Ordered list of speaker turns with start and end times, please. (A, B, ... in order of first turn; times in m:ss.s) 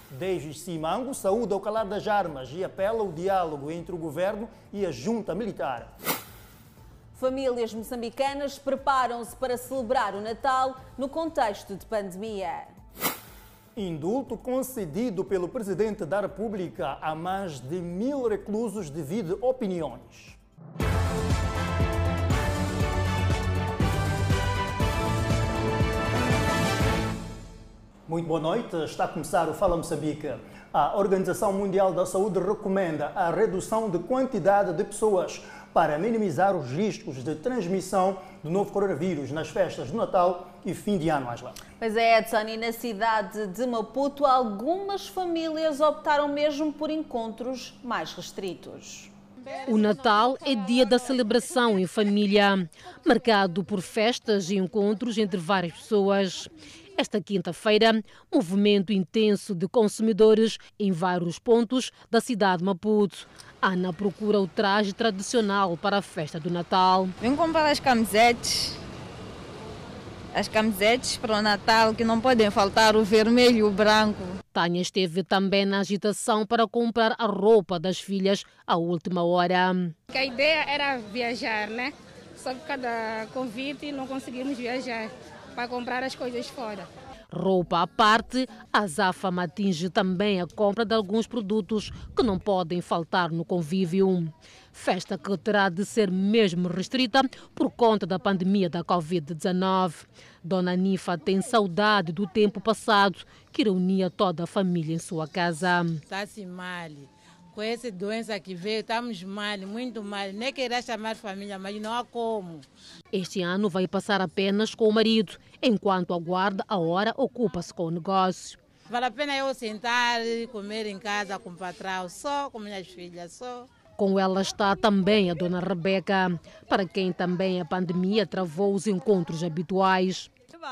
0:00.1-0:05.9 A
0:07.2-0:12.8 B
0:13.8-0:20.4 A
0:28.1-0:41.6 A
0:41.8-0:49.1 B
0:49.7-1:07.1 C
1:07.2-1:08.8 D
1:10.3-1:14.4 D
1:14.5-1:19.9 C
1:20.1-1:26.9 E
1:27.3-1:46.0 C
1:46.1-1:52.6 F
1:53.1-1:58.6 C
1:58.9-2:03.7 F
2:04.0-2:10.3 C